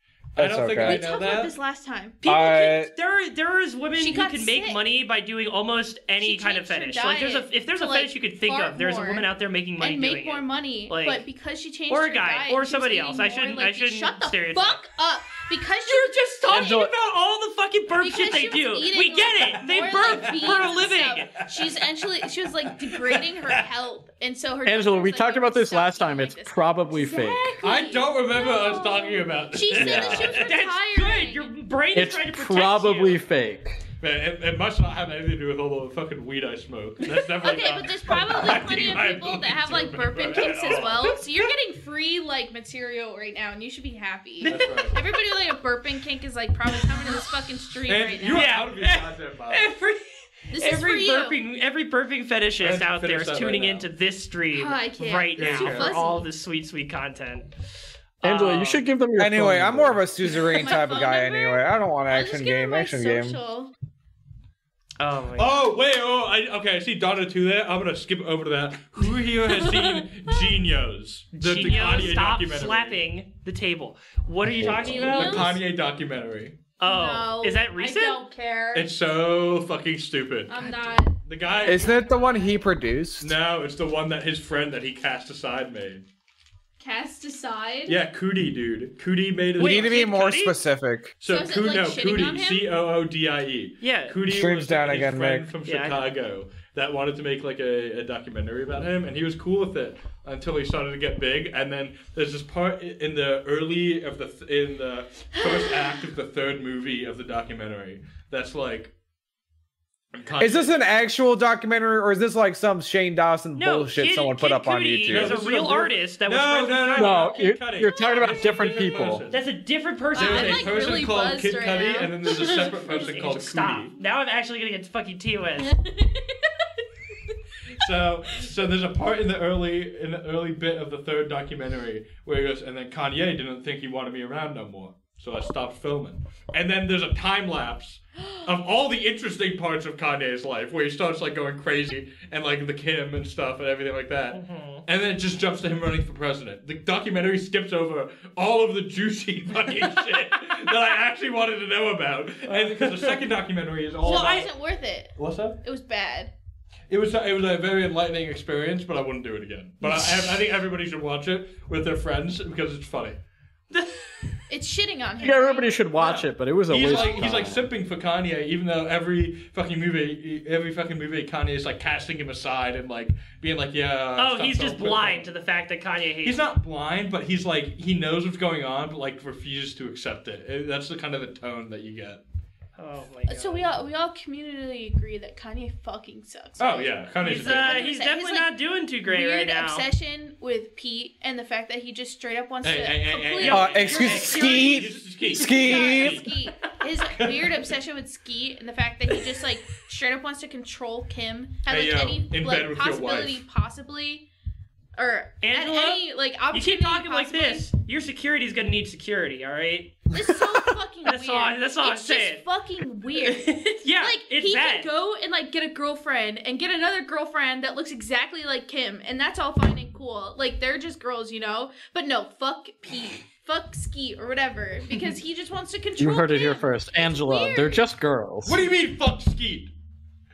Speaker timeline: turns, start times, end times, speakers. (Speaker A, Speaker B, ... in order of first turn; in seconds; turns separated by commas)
Speaker A: 0.3-1.5, Speaker B: 0.4-1.0, Speaker C: 0.8-2.3, Speaker D: 2.2-11.2, Speaker B: 2.2-2.9, Speaker C: 3.9-4.8, Speaker C: 6.2-16.9, Speaker D: 11.9-14.8, Speaker D: 15.8-21.4, Speaker E: 16.5-16.9, Speaker C: 18.0-31.5, Speaker A: 20.2-20.5, Speaker A: 21.4-21.8, Speaker A: 22.7-23.6, Speaker E: 24.6-27.6, Speaker A: 27.6-30.5, Speaker E: 29.7-30.3, Speaker D: 30.2-33.2, Speaker E: 31.9-33.8, Speaker A: 34.0-41.2, Speaker C: 37.4-48.5, Speaker D: 40.3-41.2, Speaker D: 44.4-44.7, Speaker A: 44.4-45.0, Speaker A: 47.8-49.7, Speaker D: 48.3-50.0, Speaker C: 50.5-51.4, Speaker D: 50.5-57.5, Speaker A: 52.6-53.9, Speaker C: 54.5-56.3, Speaker A: 55.4-55.9, Speaker D: 58.2-58.8, Speaker E: 58.2-60.0, Speaker B: 59.2-63.4, Speaker C: 60.4-63.7, Speaker D: 65.0-65.6, Speaker A: 65.4-73.0, Speaker D: 71.3-75.5, Speaker E: 74.5-75.1, Speaker A: 74.7-76.6, Speaker C: 74.7-75.6, Speaker D: 76.8-78.2, Speaker C: 76.8-78.9, Speaker A: 78.7-80.6, Speaker C: 80.5-82.7, Speaker D: 80.6-81.0, Speaker A: 81.2-81.9, Speaker B: 81.7-83.3, Speaker A: 83.2-86.0, Speaker C: 86.8-88.0, Speaker A: 87.9-90.0, Speaker D: 89.6-90.6, Speaker B: 89.6-91.2, Speaker A: 91.2-108.9, Speaker C: 91.2-92.7, Speaker D: 93.8-94.2, Speaker B: 94.2-95.5, Speaker D: 95.6-96.1, Speaker A: 110.1-110.8, Speaker B: 110.4-115.4, Speaker D: 113.5-117.3, Speaker A: 115.1-119.4, Speaker E: 117.0-119.2, Speaker D: 119.3-120.8, Speaker C: 120.1-122.9, Speaker A: 120.2-123.9, Speaker D: 122.5-125.7, Speaker C: 125.6-126.8, Speaker A: 127.7-154.5, Speaker D: 144.3-144.8, Speaker D: 152.5-153.2, Speaker C: 154.0-156.3, Speaker D: 154.0-154.5, Speaker A: 155.2-155.6, Speaker A: 156.9-163.2, Speaker D: 163.7-164.4, Speaker C: 164.5-165.8, Speaker E: 165.2-167.7, Speaker A: 166.0-175.3, Speaker C: 166.8-167.3, Speaker D: 174.2-176.5, Speaker A: 176.2-182.2, Speaker D: 182.8-183.7, Speaker C: 183.3-188.5, Speaker A: 186.6-187.8, Speaker D: 187.2-189.9, Speaker C: 189.0-194.7, Speaker A: 192.6-196.3, Speaker D: 193.4-194.9, Speaker B: 193.5-196.2, Speaker C: 195.3-204.3, Speaker A: 197.1-197.7, Speaker A: 201.7-203.4, Speaker C: 204.9-207.7, Speaker D: 205.4-210.0, Speaker C: 210.1-227.8, Speaker D: 211.0-212.4, Speaker D: 213.2-214.9, Speaker E: 226.0-228.6, Speaker A: 228.4-229.7